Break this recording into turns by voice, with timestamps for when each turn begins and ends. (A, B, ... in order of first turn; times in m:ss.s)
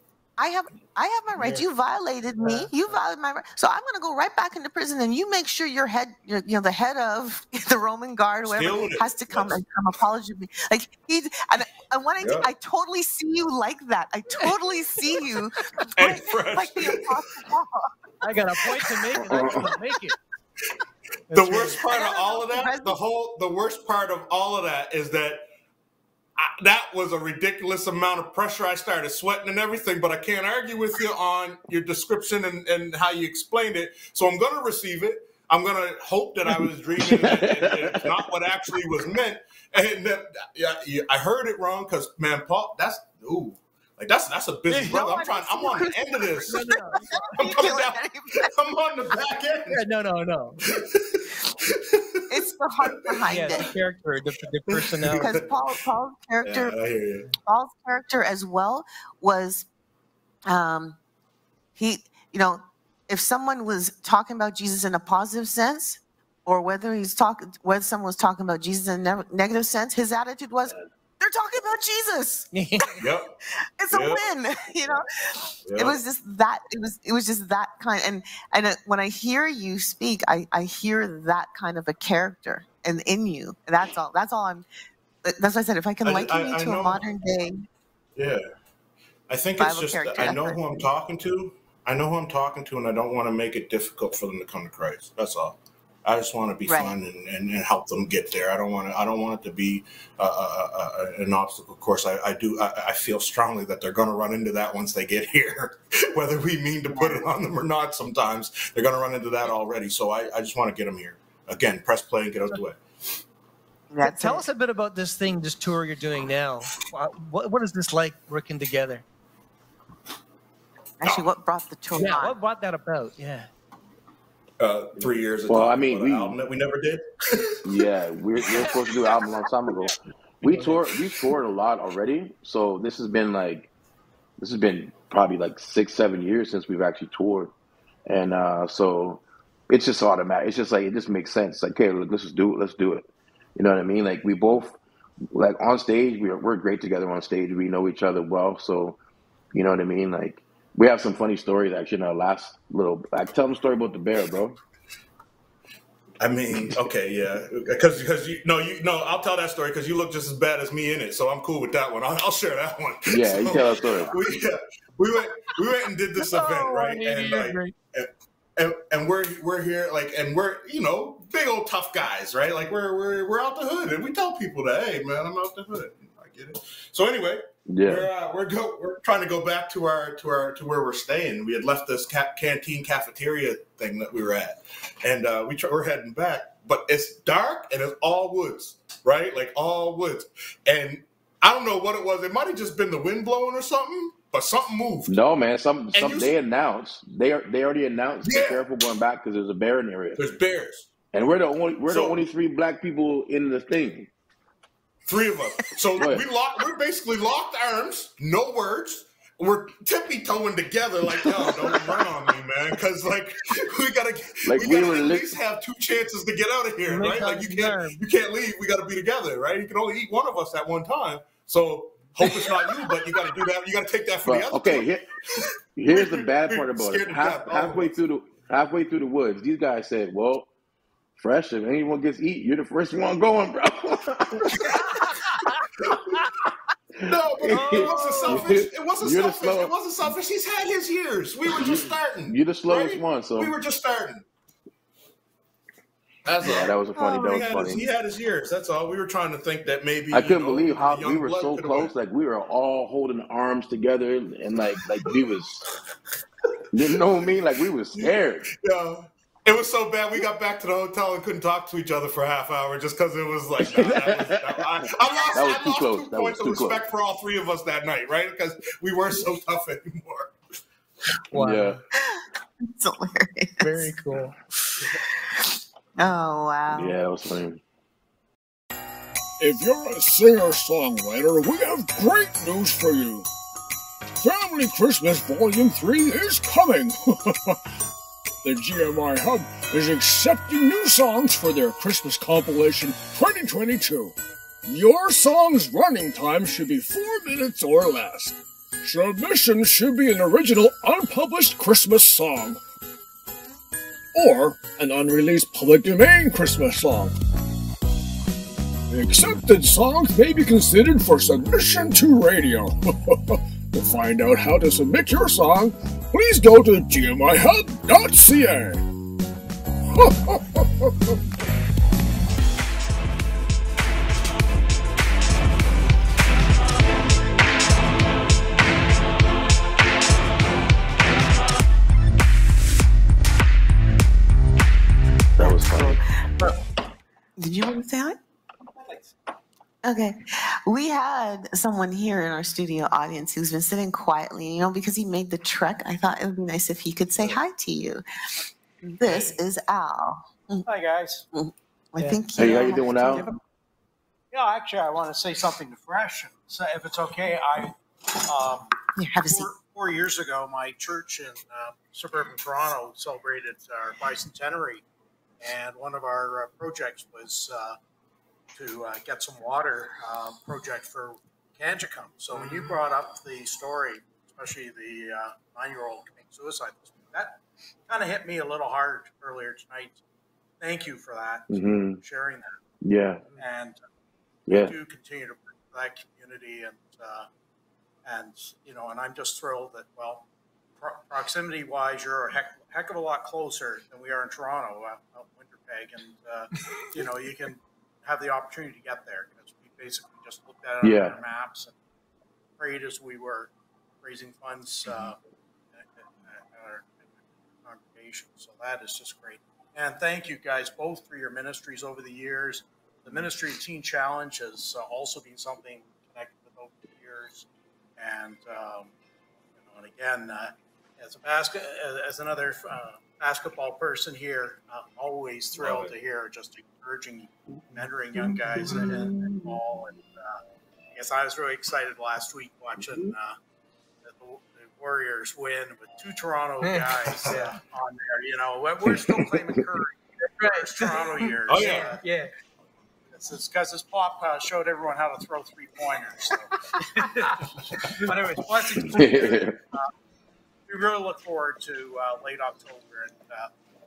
0:00.4-0:17.9 A
0:02.4-0:03.0 B
0:08.4-0:09.6 C
0:12.2-0:12.5 C
0:15.9-0:17.4 C
0:18.2-0:20.2 B
0:19.2-0:19.6 D
0:21.3-0:21.8 B
0:21.3-0:25.4 C
0:21.9-0:22.9 A
0:26.4-0:46.6 C
0:37.0-0:38.2 D
0:44.7-0:45.0 B
0:44.8-0:48.5 A
0:46.5-0:47.4 B
0:47.4-0:49.8 C
0:49.7-0:50.6 B
0:50.7-0:52.2 C
0:52.3-0:53.7 A
0:53.3-0:55.4 B
0:54.7-0:55.5 C
0:55.2-0:56.7 A
0:56.4-0:57.3 C
0:57.4-0:59.7 A
1:00.5-1:01.0 A
1:01.8-1:12.9 A
1:12.5-1:13.0 B
1:13.0-1:13.3 C
1:13.8-1:15.0 A
1:13.9-1:14.2 C
1:15.7-1:16.0 C
1:15.8-1:24.6 A
1:25.2-1:27.6 A
1:26.0-1:27.0 C
1:28.2-1:28.4 C
1:29.3-1:52.8 C
1:29.6-1:30.8 A
1:36.7-1:36.9 A
1:46.9-1:47.2 A
1:53.9-1:54.4 A
1:54.0-1:59.0 B
2:01.0-2:02.3 A
2:01.0-2:01.3 C
2:01.9-2:03.5 B
2:04.6-2:07.5 C
2:05.5-2:06.4 D
2:07.6-2:13.7 D
2:10.4-2:10.7 B
2:14.4-2:17.5 D
2:18.1-2:24.8 D
2:25.3-2:29.0 D
2:29.5-2:34.6 D
2:36.2-3:15.2 C
2:43.1-2:44.2 D
2:46.2-2:47.7 B
2:57.7-2:58.1 D
3:15.1-3:20.2 D
3:15.9-3:16.3 C
3:18.2-3:18.6 C
3:20.2-3:20.9 C
3:21.1-3:24.1 D
3:21.9-3:22.2 C
3:25.1-3:47.9 C
3:26.0-3:26.2 D
3:34.4-3:35.3 D
3:36.8-3:38.0 B
3:44.2-3:45.0 D
3:45.8-3:50.5 D
3:51.2-3:54.8 D
3:54.8-3:55.6 B
3:56.9-3:59.7 D
3:57.0-4:04.2 C
3:57.5-3:58.5 B
4:01.5-4:03.5 D
4:06.2-4:06.8 C
4:06.4-4:07.9 D
4:07.0-4:07.7 A
4:07.3-4:11.9 C
4:10.1-4:15.6 D
4:16.7-4:18.5 D
4:17.9-4:30.4 C
4:23.6-4:26.8 D
4:31.3-4:31.8 B
4:31.3-4:31.8 D
4:32.0-4:33.9 A
4:33.6-4:34.8 B
4:35.1-4:37.0 A
4:36.7-4:37.6 D
4:39.4-4:43.3 E
4:44.2-4:47.6 E
4:48.4-5:02.6 E
5:04.1-5:07.1 E
5:08.9-5:18.8 E
5:19.9-5:21.1 E
5:35.4-5:36.0 D
5:35.4-5:36.6 A
5:37.4-5:38.2 A
5:39.8-5:48.0 A
5:48.8-5:50.6 A
5:49.0-5:49.4 C
5:50.6-5:51.2 F
5:51.3-5:53.4 A
5:52.0-5:53.4 B
5:52.4-5:53.2 D
5:54.3-5:58.7 F
5:59.0-5:59.5 A
5:59.2-6:04.8 F
6:05.4-6:07.8 F
6:08.5-6:20.0 F
6:20.6-6:22.5 F
6:21.5-6:22.0 D
6:22.8-6:23.2 D
6:23.4-6:23.8 F
6:24.5-6:24.8 D
6:24.5-6:27.3 F
6:28.0-6:30.2 F
6:30.8-6:41.7 F
6:40.8-6:41.2 D
6:42.6-6:45.2 F
6:45.7-6:47.1 F
6:47.6-6:57.4 F
6:58.0-6:58.9 F
6:59.6-7:10.4 F
7:05.6-7:05.9 C
7:08.7-7:09.4 A
7:10.9-7:13.4 F
7:14.0-7:22.0 F
7:16.6-7:17.6 B
7:17.2-7:17.5 C
7:19.1-7:19.3 D
7:20.4-7:22.3 B
7:21.5-7:21.9 C
7:23.1-7:29.9 F
7:26.8-7:28.2 B
7:28.9-7:29.6 D
7:30.7-7:33.5 F